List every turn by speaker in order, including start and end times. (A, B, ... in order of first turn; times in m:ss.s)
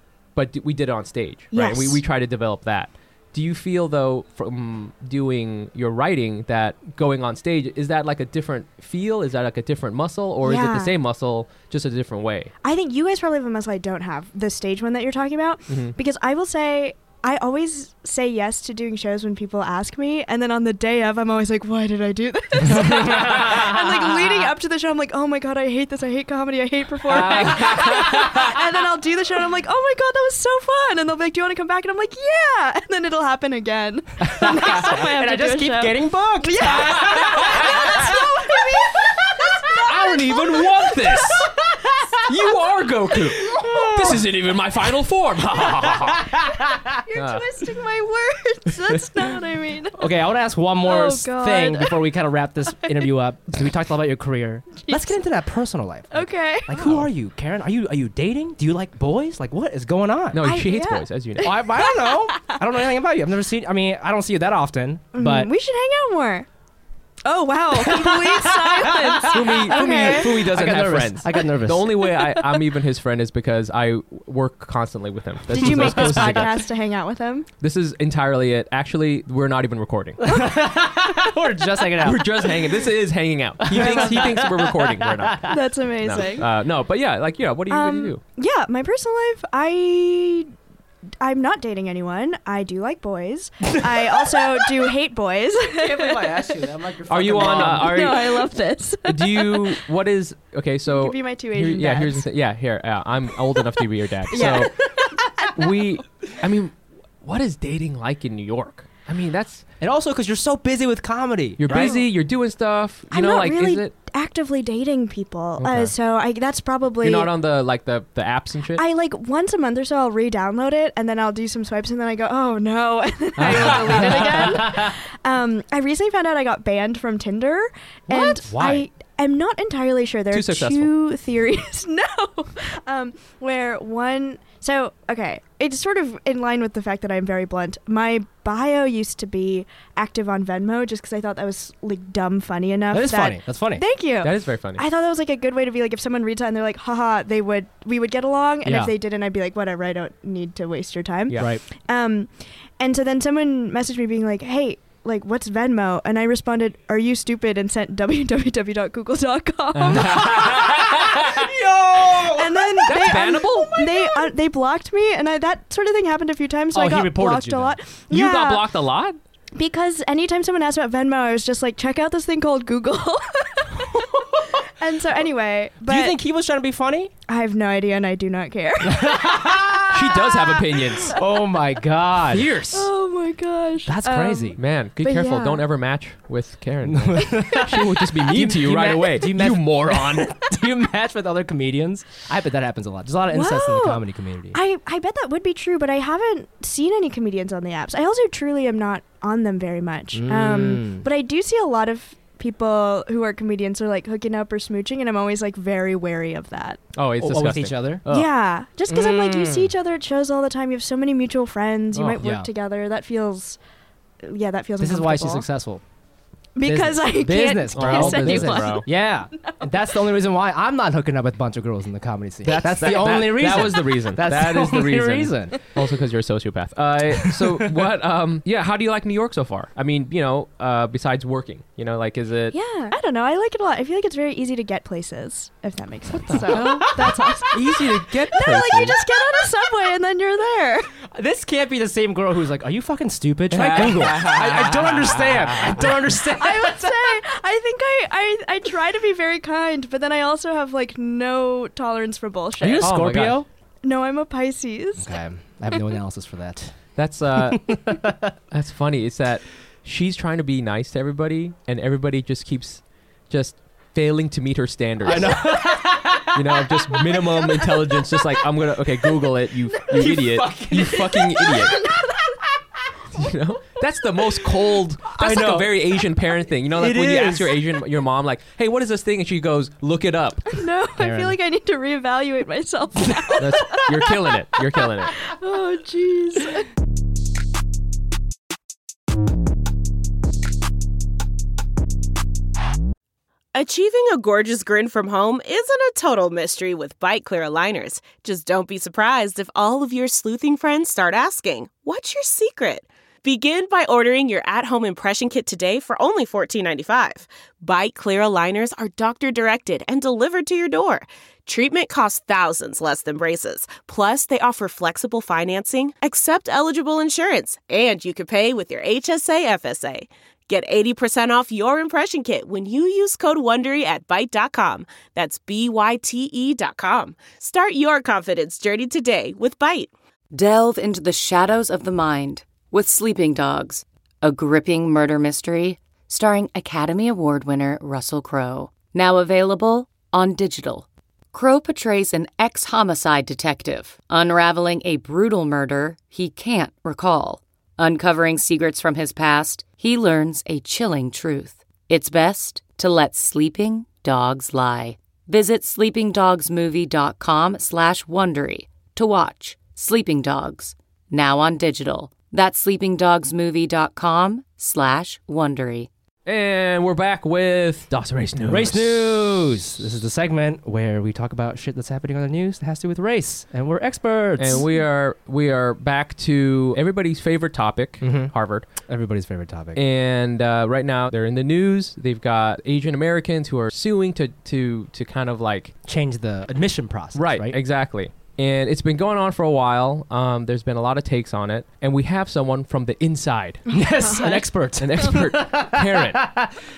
0:00.4-0:12.5 A
0:01.5-0:02.0 B
0:10.4-0:10.9 B
0:12.6-0:41.5 B
0:15.7-0:16.0 A
0:23.1-0:23.6 A
0:27.1-0:28.4 A
0:27.2-0:28.1 C
0:34.2-0:39.6 C
0:36.7-0:38.0 A
0:39.8-0:41.5 A
0:41.3-0:42.2 C
0:42.2-0:46.3 A
0:43.5-0:44.2 B
0:43.5-0:44.2 C
0:45.6-0:47.0 C
0:46.9-0:50.1 B
0:47.2-0:47.5 A
0:48.9-0:49.2 A
0:50.0-1:00.4 C
0:50.8-0:52.0 B
0:52.8-0:53.1 B
0:54.8-0:55.2 B
0:56.1-0:56.8 B
0:56.8-0:57.1 A
1:00.3-1:01.6 A
1:00.4-1:02.6 B
1:01.4-1:05.5 C
1:05.1-1:06.5 B
1:07.2-1:10.3 B
1:07.8-1:12.1 C
1:09.3-1:16.6 A
1:15.5-1:17.5 B
1:15.6-1:16.5 C
1:17.6-1:20.2 A
1:20.2-1:22.9 C
1:20.3-1:21.3 B
1:22.0-1:28.2 A
1:23.6-1:25.6 C
1:23.7-1:24.3 B
1:25.5-1:26.5 B
1:27.7-1:30.5 B
1:31.2-1:36.5 B
1:35.8-1:38.2 C
1:37.1-1:38.5 A
1:37.4-1:39.8 B
1:39.0-1:44.8 A
1:40.9-1:42.2 B
1:44.3-1:45.6 B
1:44.4-1:45.5 C
1:45.5-1:49.6 A
1:49.8-1:52.0 C
1:51.6-1:53.9 A
1:51.7-1:52.1 B
1:53.1-1:57.3 B
1:55.6-1:55.9 A
1:57.0-1:58.8 A
1:58.8-2:40.5 B
2:03.4-2:04.8 A
2:03.5-2:04.9 C
2:08.1-2:08.9 C
2:10.3-2:10.9 A
2:22.9-2:23.8 C
2:24.2-2:24.8 A
2:28.6-2:28.9 C
2:39.8-2:41.5 A
2:39.9-2:44.0 C
2:42.3-2:48.6 B
2:42.9-2:43.8 A
2:46.7-2:47.8 C
2:48.1-2:49.2 A
2:49.6-2:56.2 B
2:54.0-2:54.2 C
2:55.8-2:57.1 C
2:57.3-3:01.2 B
2:58.8-3:00.1 C
2:59.9-3:01.1 A
3:01.1-3:02.5 C
3:02.3-3:02.9 A
3:02.7-3:05.6 B
3:03.9-3:04.6 C
3:04.6-3:10.3 A
3:06.8-3:14.6 C
3:07.2-3:07.6 B
3:13.3-3:26.8 B
3:20.1-3:21.0 C
3:27.0-3:28.3 A
3:27.2-3:28.0 C
3:28.1-3:33.6 B
3:28.9-3:29.7 C
3:31.9-3:32.2 A
3:32.2-3:32.5 C
3:34.2-3:35.5 B
3:34.8-3:35.8 C
3:36.6-3:39.8 B
3:36.6-3:45.6 C
3:37.7-3:38.8 A
3:42.5-3:52.6 A
3:42.5-3:43.0 B
3:47.2-3:47.8 C
3:52.5-4:00.9 B
3:56.3-3:57.4 C
3:56.3-3:59.0 A
4:01.1-4:07.2 C
4:03.5-4:06.0 A
4:06.3-4:12.9 B
4:12.6-4:13.5 C
4:12.6-4:13.4 A
4:13.8-4:15.2 B
4:15.0-4:16.8 C
4:17.0-4:18.0 A
4:17.4-4:18.3 C
4:18.5-4:25.6 A
4:25.0-4:27.2 C
4:26.2-4:31.8 A
4:29.9-4:31.3 C
4:31.2-4:32.4 B
4:33.1-4:40.5 A
4:35.2-4:35.8 C
4:36.7-4:37.6 C
4:40.5-4:44.1 B
4:41.0-4:41.4 C
4:43.1-4:43.4 C
4:43.4-4:45.2 A
4:45.2-4:46.7 B
4:53.5-5:29.9 D
5:30.3-6:05.9 E
6:06.3-6:09.4 A
6:08.5-6:14.7 C
6:14.4-6:18.7 A
6:18.0-6:18.3 C
6:18.8-6:19.8 C
6:19.8-6:25.7 A
6:25.8-6:27.6 C
6:27.1-6:33.6 A
6:33.7-6:34.5 B
6:33.7-6:36.5 C
6:34.8-6:36.3 A